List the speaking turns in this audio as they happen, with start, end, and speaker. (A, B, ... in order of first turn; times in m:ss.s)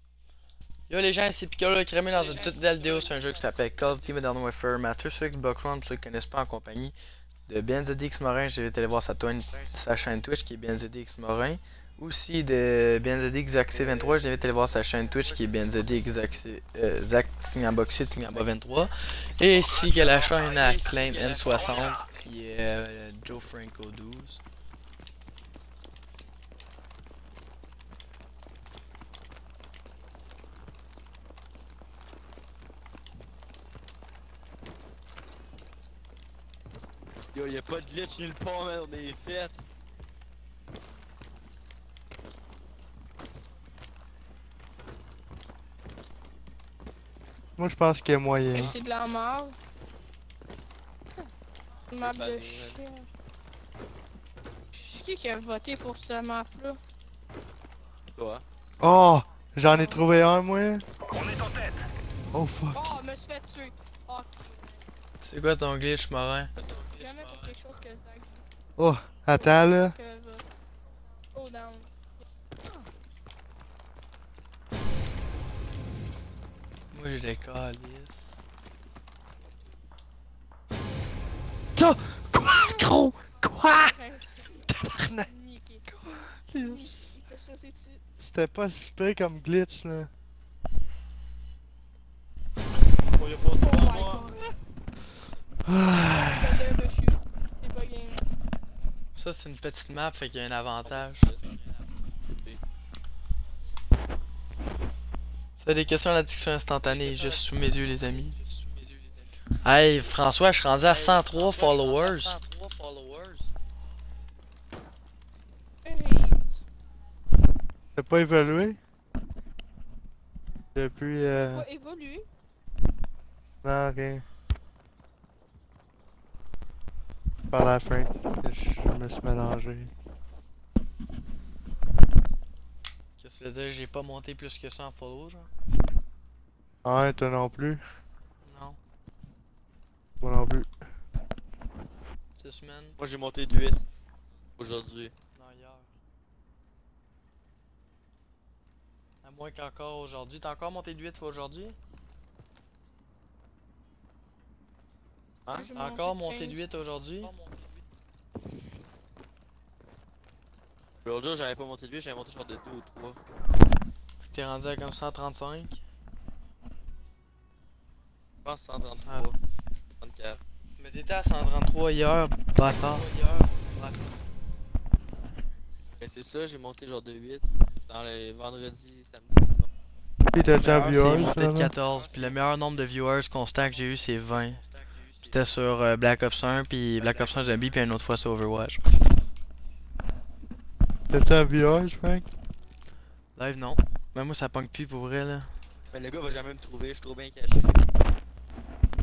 0:00.9-0:06.9 A
0:02.1-0:04.3 B
0:07.5-0:24.4 A
0:13.7-0:16.4 B
0:19.9-0:22.2 B
0:37.3-0:39.6 B
0:47.6-0:48.8 C
0:48.5-0:49.6 D
0:51.9-0:53.1 D
0:52.0-0:52.8 B
0:54.7-0:56.8 D
0:58.2-0:58.4 B
0:58.8-1:00.8 C
0:59.7-1:00.0 D
1:02.3-1:02.9 C
1:02.7-1:04.6 D
1:05.2-1:06.5 A
1:06.6-1:07.5 B
1:06.8-1:08.4 D
1:08.8-1:10.0 C
1:09.3-1:10.4 D
1:11.3-1:11.9 D
1:16.9-1:18.2 A
1:21.8-1:23.9 C
1:22.4-1:22.9 D
1:23.5-1:25.9 D
1:24.7-1:25.3 C
1:25.9-1:27.1 C
1:26.6-1:28.0 D
1:28.2-1:30.1 C
1:33.1-1:34.5 B
1:33.6-1:34.5 D
1:35.6-1:36.5 C
1:36.2-1:38.2 D
1:39.2-1:41.4 A
1:40.8-1:42.6 B
1:45.6-1:48.4 A
1:46.8-1:49.3 B
1:49.6-1:52.4 A
1:50.8-1:53.5 B
1:55.8-1:56.6 D
1:58.0-1:58.8 C
2:00.7-2:01.6 C
2:01.3-2:02.3 D
2:03.6-2:04.2 C
2:07.5-2:09.9 C
2:13.2-2:15.5 A
2:16.8-2:17.8 C
2:18.4-2:18.8 A
2:20.2-2:20.7 C
2:22.4-2:23.0 A
2:23.0-2:23.8 B
2:24.6-2:25.1 B
2:25.4-2:25.9 A
2:29.2-2:31.8 A
2:35.5-2:35.7 B
2:35.5-2:36.6 D
2:35.7-2:37.3 A
2:37.2-2:37.8 B
2:41.0-2:43.2 B
2:44.3-2:45.8 A
2:48.4-2:49.4 B
2:50.0-2:50.4 B
2:50.8-2:53.1 A
2:52.6-2:53.7 B
2:56.0-2:59.7 B
3:00.3-3:01.7 C
3:00.6-3:04.6 A
3:01.8-3:02.5 B
3:03.7-3:05.4 B
3:05.3-3:08.8 A
3:07.0-3:07.9 B
3:11.1-3:12.3 C
3:13.4-3:15.5 A
3:15.9-3:17.9 B